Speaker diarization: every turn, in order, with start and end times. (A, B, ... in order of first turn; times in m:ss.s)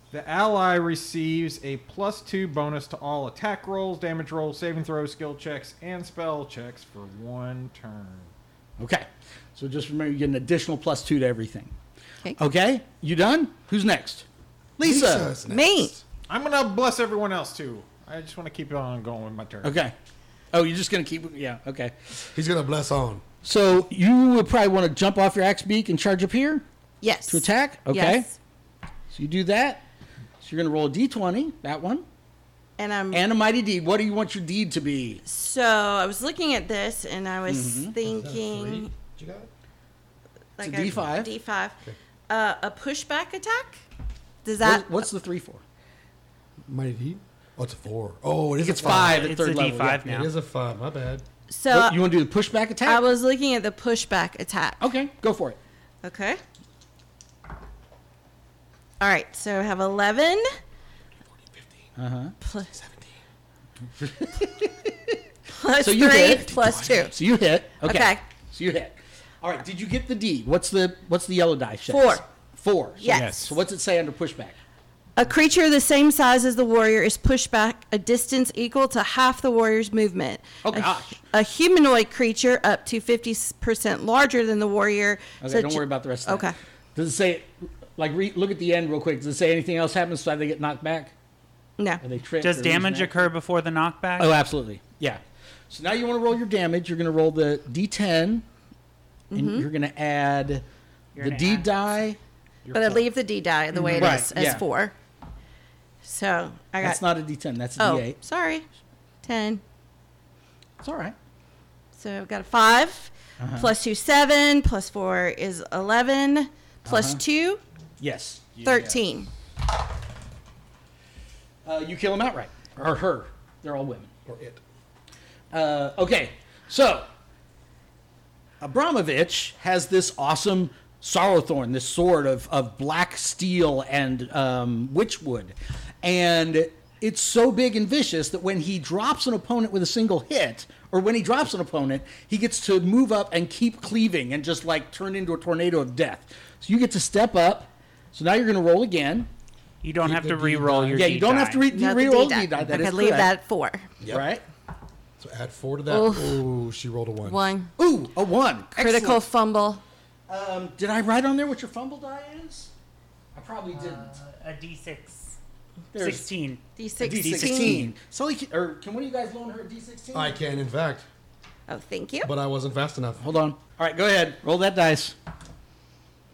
0:00.1-0:08.3 A
0:08.8-0:11.7 B
0:12.4-0:14.3 B
0:14.8-0:15.3 B
0:14.8-0:16.0 C
0:15.5-0:15.9 D
0:16.3-0:19.7 A
0:19.6-0:19.9 B
0:20.5-0:22.0 B
0:22.3-0:23.2 C
0:23.4-0:26.6 B
0:27.0-0:28.3 D
0:27.3-0:28.3 B
0:29.1-0:29.8 B
0:30.4-0:32.0 B
0:32.8-0:33.2 D
0:33.1-0:35.2 B
0:35.2-0:38.9 D
0:37.5-0:37.9 B
0:38.0-0:39.5 C
0:40.6-0:41.8 D
0:40.6-0:41.3 B
0:42.3-0:43.8 D
0:44.4-0:45.0 D
0:44.6-0:45.6 B
0:46.7-0:49.3 C
0:48.6-0:50.0 B
0:48.8-0:50.3 E
0:50.0-0:51.2 C
0:51.5-0:52.1 D
0:51.7-0:53.0 B
0:52.8-0:54.8 D
0:54.8-0:55.6 B
0:56.0-0:56.4 D
0:59.0-1:00.5 D
1:02.0-1:02.4 B
1:02.4-1:02.7 D
1:02.7-1:03.1 C
1:04.0-1:05.2 B
1:05.5-1:07.1 D
1:05.8-1:06.5 B
1:06.1-1:07.1 C
1:07.1-1:14.6 B
1:07.8-1:08.2 D
1:11.9-1:12.2 D
1:13.0-1:13.4 D
1:13.1-1:13.6 A
1:15.2-1:26.6 D
1:20.6-1:21.2 B
1:25.4-1:31.1 B
1:32.0-1:33.3 B
1:32.4-1:34.4 E
1:34.2-1:38.4 B
1:39.3-1:39.7 D
1:39.3-1:40.6 B
1:41.1-1:41.7 E
1:41.2-1:42.2 B
1:42.6-1:43.1 A
1:42.7-1:44.9 D
1:43.8-1:44.6 B
1:43.9-1:44.3 E
1:46.0-1:47.0 D
1:46.8-1:48.2 B
1:47.8-1:48.6 D
1:49.2-1:49.6 D
1:50.8-1:51.1 B
1:52.0-1:57.6 D
1:53.4-1:53.7 B
1:56.8-1:57.2 B
1:58.0-1:58.4 B
1:58.6-1:59.0 A
1:58.6-1:59.3 D
2:01.6-2:04.1 B
2:04.3-2:04.6 C
2:05.5-2:07.1 B
2:08.6-2:29.3 B
2:29.8-2:31.7 E
2:30.0-2:31.0 C
2:30.9-2:33.3 B
2:31.7-2:33.9 D
2:34.0-2:34.3 C
2:34.1-2:34.4 B
2:35.2-2:37.4 C
2:35.9-2:36.4 D
2:37.2-2:37.7 D
2:37.8-2:39.3 B
2:38.8-2:39.8 D
2:40.3-2:42.7 B
2:43.3-2:44.1 B
2:43.7-2:45.4 E
2:45.9-2:46.3 B
2:46.0-2:46.6 E
2:46.8-2:47.9 D
2:47.0-2:50.4 B
2:47.2-2:47.9 E
2:50.1-2:51.1 C
2:51.7-2:52.3 D
2:52.2-2:53.3 C
2:53.2-2:55.1 B